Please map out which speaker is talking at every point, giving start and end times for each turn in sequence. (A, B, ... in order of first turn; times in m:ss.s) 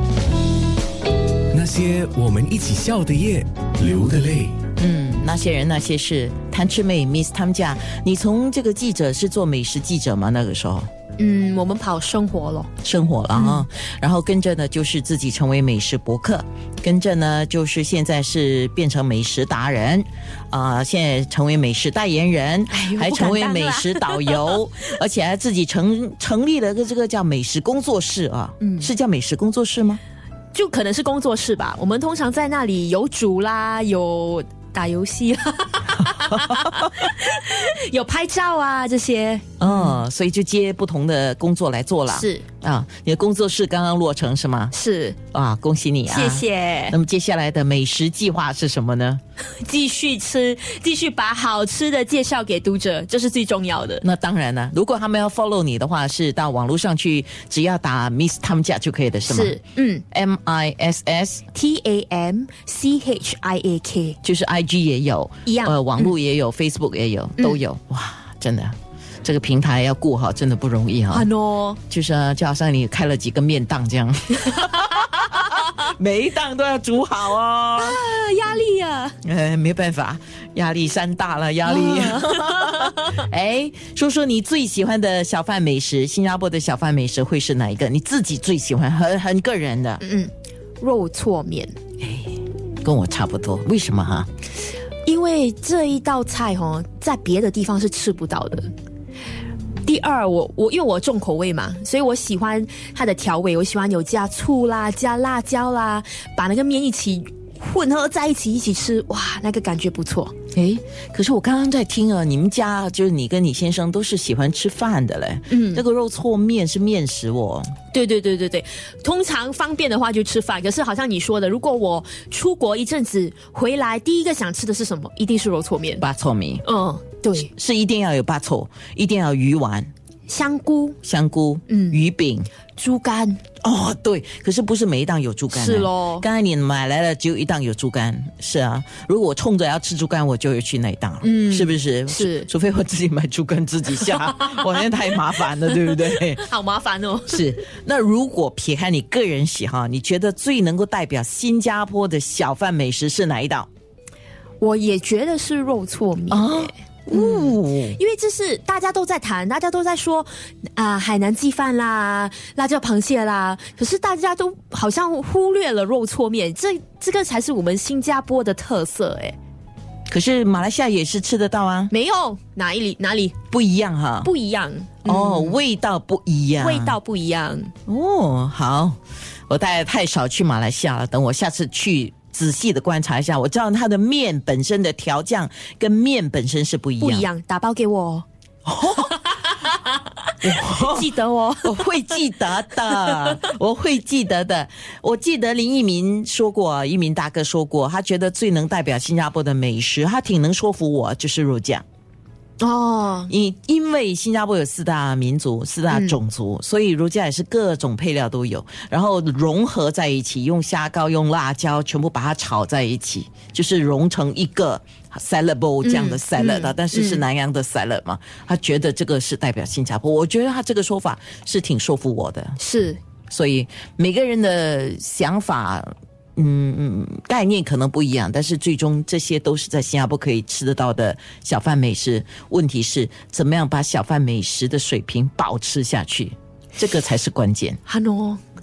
0:01.5-0:04.6 A
0:04.8-0:10.9 B
0:11.2-0:12.7 C
0:12.8-0:30.0 B
0:13.3-0:13.6 C
0:22.7-0:24.6 C
0:28.6-0:28.9 C
0:30.5-0:40.0 C
0:36.3-0:36.8 B
0:39.6-0:44.7 B
0:42.1-0:42.4 C
0:44.7-0:45.2 C
0:45.3-0:49.2 B
0:46.0-0:47.0 C
0:49.4-0:54.0 C
0:54.0-0:59.6 B
0:59.3-1:00.0 C
1:00.1-1:01.4 B
1:01.5-1:04.2 C
1:04.2-1:11.3 B
1:05.4-1:06.1 C
1:11.1-1:11.8 C
1:11.9-1:18.0 B
1:15.2-1:15.5 C
1:17.8-1:19.2 C
1:19.2-1:30.0 B
1:21.6-1:23.2 C
1:30.0-1:31.8 C
1:32.0-1:34.3 B
1:35.0-1:38.7 C
1:39.8-1:50.4 C
1:50.5-1:57.7 B
1:55.5-1:55.8 C
1:57.9-2:06.0 C
2:06.0-2:06.6 B
2:06.6-2:07.5 C
2:07.5-2:09.9 B
2:10.3-2:11.0 C
2:11.0-2:12.5 B
2:11.7-2:12.0 C
2:12.7-2:13.4 C
2:13.6-2:26.4 B
2:15.5-2:16.2 C
2:21.2-2:22.5 C
2:24.0-2:25.1 C
2:25.7-2:27.4 C
2:27.3-2:33.7 B
2:34.6-2:49.4 C
2:36.3-2:38.0 B
2:50.1-2:51.9 B
2:51.9-2:53.4 C
2:53.5-2:54.3 B
2:54.2-2:55.6 C
2:55.0-2:57.0 B
2:56.6-2:57.7 C
2:57.9-2:59.0 B
2:59.5-3:07.3 B
3:07.0-3:08.2 C
3:08.6-3:09.2 B
3:09.3-3:11.9 C
3:10.4-3:11.1 B
3:11.6-3:21.8 B
3:12.9-3:13.4 C
3:22.6-3:23.3 C
3:23.3-3:42.6 B
3:25.9-3:26.2 C
3:35.8-3:37.2 C
3:42.6-3:43.0 C
3:43.3-3:57.8 B
3:57.8-3:58.4 C